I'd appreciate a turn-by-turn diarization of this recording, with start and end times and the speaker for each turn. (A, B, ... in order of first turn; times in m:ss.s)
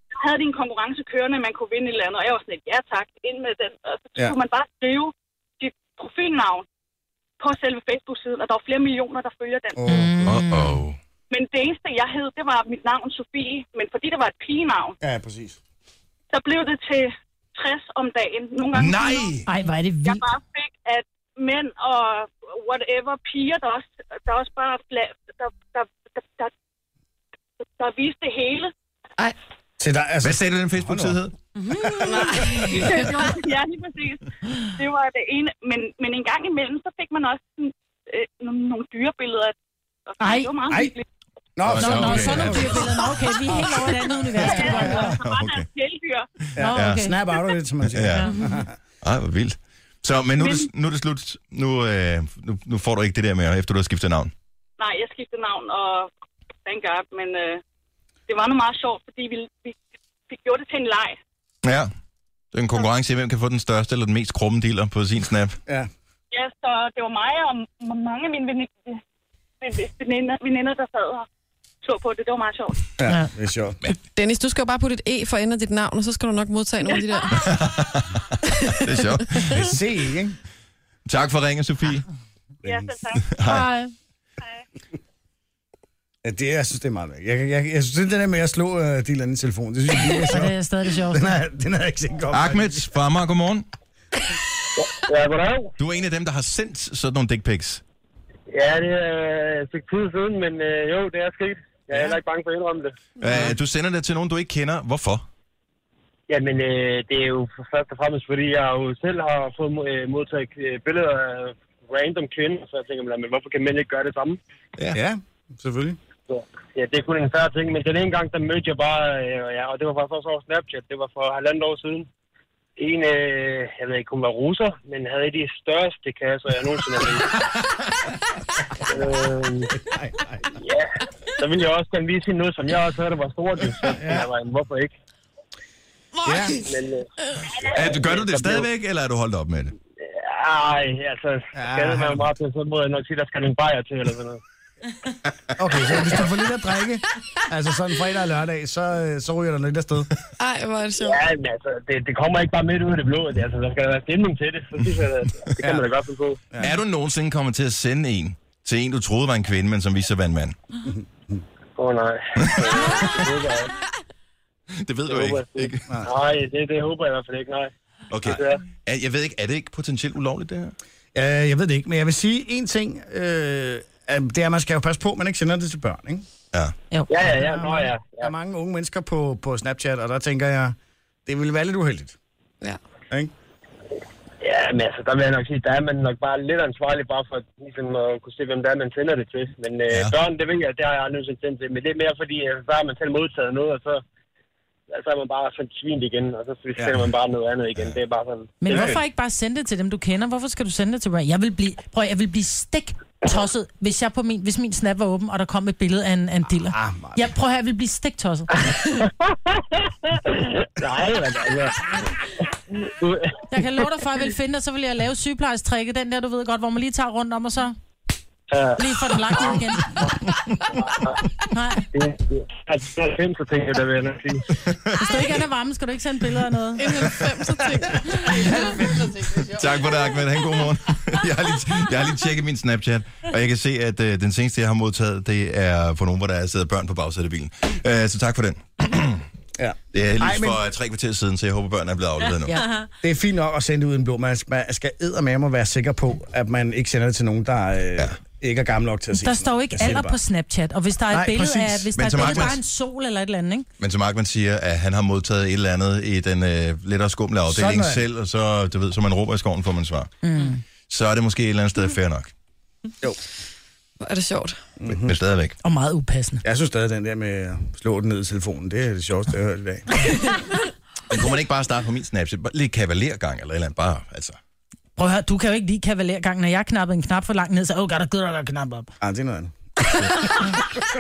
0:00.2-0:06.7 A
0:07.4-0:09.9 A
0:09.8-0:10.4 B
0:09.9-0:10.8 C
0:10.2-0:11.0 D
0:11.3-0:15.0 A
0:15.0-0:15.6 B
0:16.3-0:19.4 A
0:18.7-0:19.5 D
0:19.5-0:20.2 C
0:20.0-0:26.5 A
0:27.6-0:28.7 A
0:29.8-0:31.2 B
0:30.2-0:31.3 D
0:31.7-0:33.1 B
0:31.8-0:39.6 A
0:40.1-0:41.0 A
0:40.2-0:40.5 C
0:40.7-0:41.0 B
0:41.6-0:42.9 B
0:41.6-0:43.2 D
0:41.8-0:45.2 C
0:43.5-0:45.2 B
0:44.4-0:46.3 A
0:45.0-0:45.7 D
0:46.5-0:48.8 B
0:46.6-0:47.2 C
0:46.6-0:47.1 D
0:47.8-0:48.3 D
0:49.0-0:54.3 D
0:50.4-0:50.7 A
0:54.8-0:56.1 A
0:56.7-0:57.6 A
0:58.3-0:59.8 A
1:00.3-1:01.2 A
1:01.6-1:01.9 D
1:02.5-1:05.6 D
1:06.3-1:09.0 A
1:09.6-1:11.3 A
1:11.8-1:12.9 A
1:13.0-1:13.8 B
1:14.2-1:17.4 E
1:16.9-1:17.2 A
1:17.4-1:19.8 D
1:19.5-1:20.4 B
1:21.1-1:22.1 D
1:22.6-1:22.9 B
1:22.6-1:23.3 A
1:23.2-1:23.7 D
1:23.4-1:23.9 C
1:26.2-1:30.6 B
1:30.1-1:31.3 C
1:31.1-1:32.8 B
1:32.3-1:33.7 D
1:34.8-1:35.7 F
1:35.8-1:37.8 D
1:38.5-1:43.0 F
1:41.9-1:42.2 B
1:43.2-1:43.6 E
1:43.2-1:45.3 D
1:46.3-1:54.4 F
1:54.9-1:56.0 B
1:56.3-2:02.1 F
2:02.8-2:07.3 F
2:08.9-2:09.7 F
2:09.8-2:10.6 B
2:10.6-2:14.9 F
2:13.9-2:14.3 B
2:16.2-2:16.7 B
2:16.5-2:18.7 F
2:17.6-2:19.7 D
2:20.0-2:24.4 F
2:21.6-2:22.3 B
2:25.6-2:30.1 B
2:30.4-2:31.2 E
2:31.0-2:36.4 F
2:35.6-2:35.9 B
2:36.6-2:40.6 D
2:40.9-2:41.4 B
2:41.8-2:43.7 F
2:42.4-2:43.0 D
2:44.7-2:46.1 D
2:45.1-2:47.7 F
2:48.1-2:50.7 D
2:48.3-2:48.6 F
2:51.2-2:56.3 B
2:57.1-2:58.3 F
2:57.2-3:02.2 B
3:04.4-3:14.0 F
3:09.9-3:10.1 D
3:14.9-3:18.9 F
3:16.8-3:17.1 B
3:18.6-3:28.5 C
3:18.7-3:19.0 B
3:26.7-3:27.3 B
3:28.7-3:33.4 F
3:33.5-3:37.8 C
3:38.5-3:39.6 F
3:38.8-3:40.0 C
3:41.5-3:41.8 C
3:41.9-3:44.5 F
3:44.6-3:45.2 D
3:45.0-3:47.0 C
3:46.8-3:48.5 E
3:48.3-3:49.6 B
3:49.4-3:59.3 D
3:59.6-4:00.6 B
3:59.9-4:02.6 D
4:03.0-4:10.2 B
4:09.1-4:13.7 C
4:11.1-4:12.6 B
4:12.0-4:12.6 D
4:13.8-4:20.1 D
4:17.5-4:18.0 B
4:20.2-4:20.6 C
4:20.9-4:22.3 D
4:24.0-4:24.6 E
4:24.8-4:25.2 B
4:24.9-4:25.6 D
4:25.6-4:26.4 C
4:26.4-4:30.3 B
4:31.1-4:34.4 D
4:35.0-4:38.9 C
4:39.0-4:40.6 B